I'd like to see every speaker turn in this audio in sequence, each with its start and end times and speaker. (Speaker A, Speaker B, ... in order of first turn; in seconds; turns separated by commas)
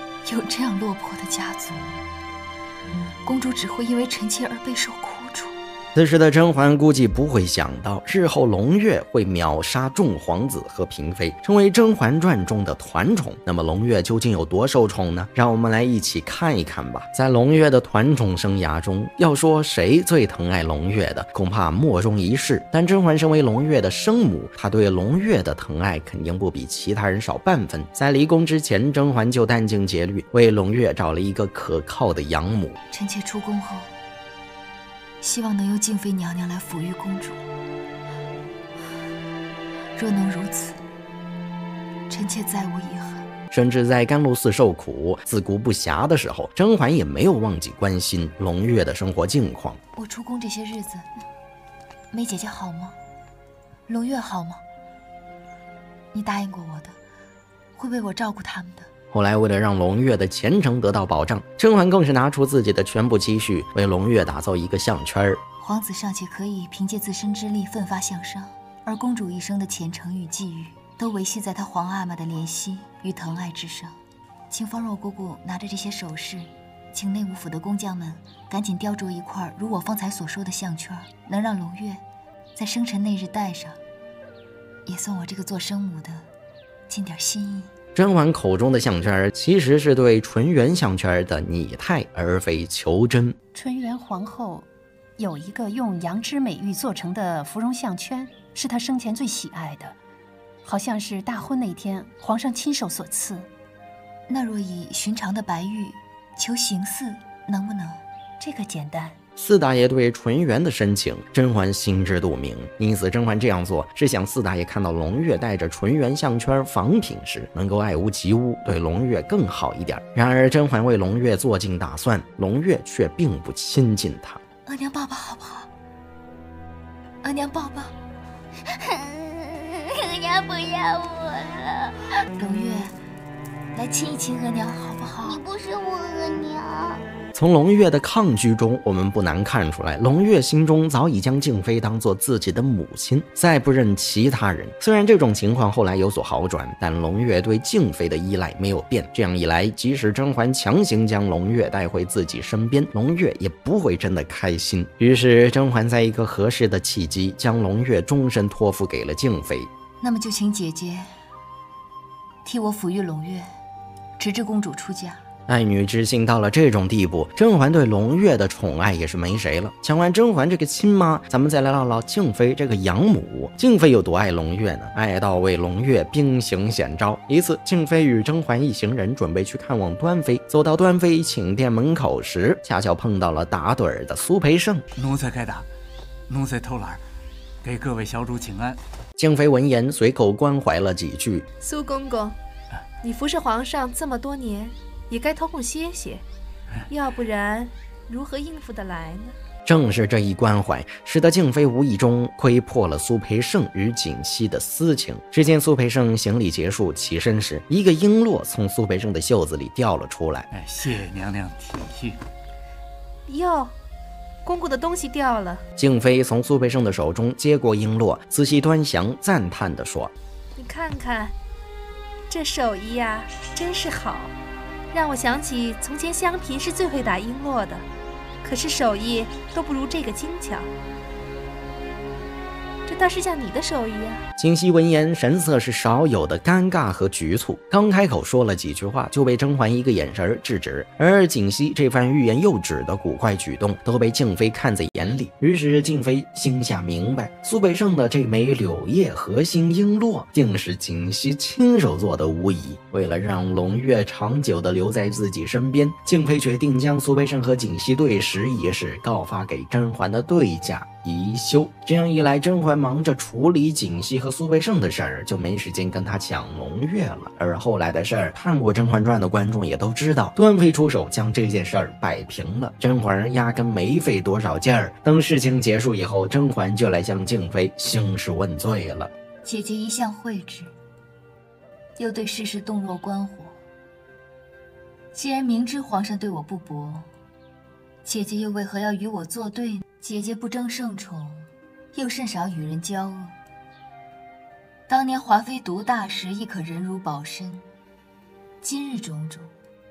Speaker A: 0.2-2.0, Speaker A: 3.2-5.6, Speaker B: 5.9-32.8, Speaker A: 32.9-33.9, Speaker A: 35.2-37.4, Speaker A: 39.9-40.8, Speaker A: 42.1-43.3, Speaker B: 43.5-49.8, Speaker A: 49.9-51.1, Speaker A: 52.1-53.0, Speaker A: 53.9-54.6, Speaker A: 56.1-57.0, Speaker A: 57.7-58.9, Speaker B: 59.1-65.4, Speaker A: 65.6-74.0, Speaker A: 74.5-82.0, Speaker A: 82.5-83.8, Speaker A: 84.8-86.2, Speaker A: 86.9-87.7, Speaker B: 87.9-93.3, Speaker C: 93.5-94.7, Speaker C: 95.2-99.9, Speaker C: 100.6-103.5, Speaker A: 104.3-108.0, Speaker C: 108.4-109.2, Speaker B: 109.4-124.4, Speaker A: 124.7-125.7, Speaker A: 127.2-127.9, Speaker D: 128.8-131.9, Speaker A: 132.3-132.9, Speaker A: 133.7-135.4, Speaker D: 135.2-137.0, Speaker B: 137.3-159.7, Speaker A: 160.0-161.1, Speaker A: 162.4-163.5, Speaker A: 164.2-165.2, Speaker B: 165.5-184.8, Speaker E: 185.0-185.7, Speaker E: 186.3-187.0, Speaker E: 187.6-188.8, Speaker B: 189.2-191.4, Speaker F: 191.6-192.3, Speaker F: 193.0-196.2, Speaker F: 196.9-199.3, Speaker B: 199.7-210.5, Speaker E: 210.5-212.2, Speaker F: 213.3-213.7, Speaker F: 214.4-215.6, Speaker B: 215.8-220.1, Speaker F: 220.6-221.3, Speaker F: 222.3-224.3, Speaker F: 224.9-227.8, Speaker F: 228.4-230.7, Speaker F: 232.9-234.2, Speaker B: 234.4-279.1, Speaker A: 279.4-280.7, Speaker A: 282.0-283.5, Speaker A: 285.1-287.1, Speaker A: 288.0-293.4, Speaker A: 294.9-297.6, Speaker A: 298.6-299.5